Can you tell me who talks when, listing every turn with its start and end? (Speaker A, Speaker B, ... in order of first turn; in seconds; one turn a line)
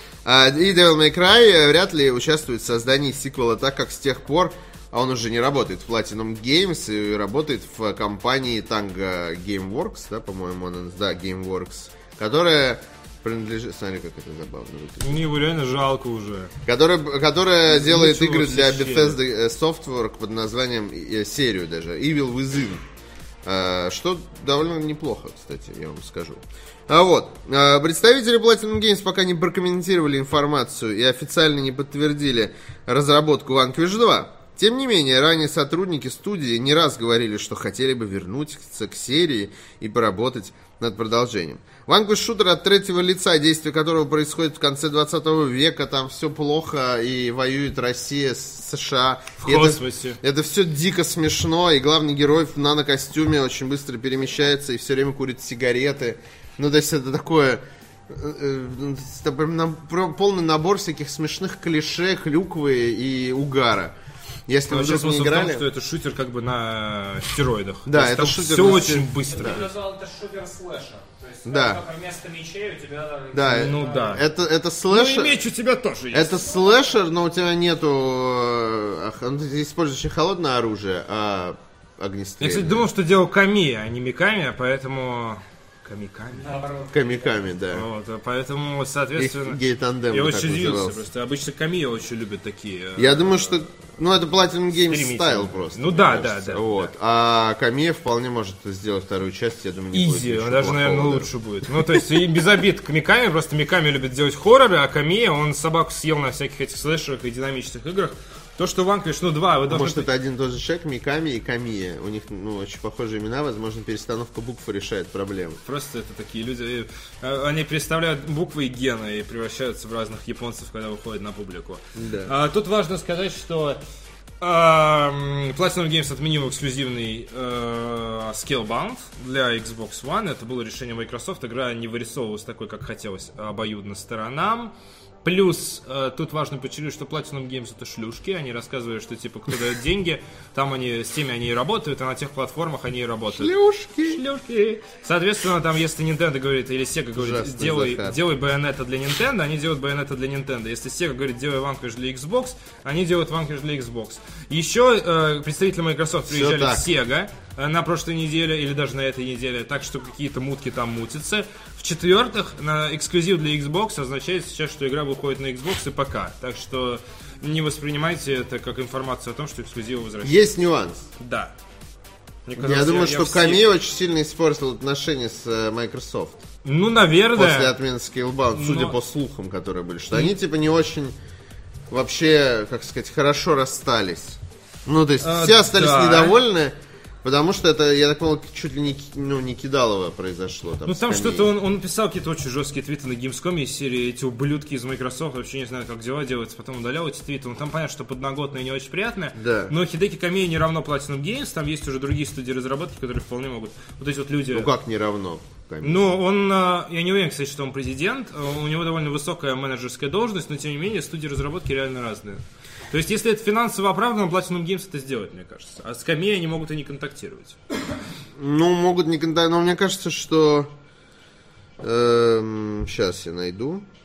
Speaker A: 0.2-15.3
Speaker B: 15.0-16.5
Speaker A: 16.6-22.8
Speaker B: 17.7-19.2
Speaker A: 23.4-64.0
Speaker B: 49.4-50.2
Speaker A: 64.5-65.7
Speaker B: 64.7-69.7
Speaker A: 67.9-69.7
Speaker C: 68.6-74.3
Speaker A: 71.5-71.8
Speaker A: 73.3-75.4
Speaker B: 73.5-74.2
Speaker B: 74.9-76.4
Speaker A: 76.1-82.9
Speaker B: 82.4-86.5
Speaker C: 86.3-87.4
Speaker A: 86.9-87.9
Speaker B: 87.7-93.5
Speaker A: 89.2-91.0
Speaker A: 93.0-102.0
Speaker B: 94.8-96.9
Speaker B: 99.9-110.1
Speaker A: 109.7-115.6
Speaker B: 115.6-123.8
Speaker A: 122.0-122.3
Speaker B: 124.4-134.7
Speaker B: 135.2-143.5
Speaker A: 143.3-144.2
Speaker B: 144.1-170.5
Speaker A: 147.2-148.2
Speaker A: 156.3-156.9
Speaker A: 170.2-171.1
Speaker B: 171.2-171.6
Speaker B: 172.5-173.7
Speaker A: 172.6-176.4
Speaker B: 176.6-177.8
Speaker A: 177.3-181.2
Speaker B: 178.5-179.0
Speaker A: 181.9-191.5
Speaker B: 185.2-186.4
Speaker B: 190.9-204.7
Speaker A: 199.4-199.7
Speaker A: 204.5-206.1
Speaker B: 205.8-217.6
Speaker A: 218.4-220.7
Speaker A: 221.8-223.8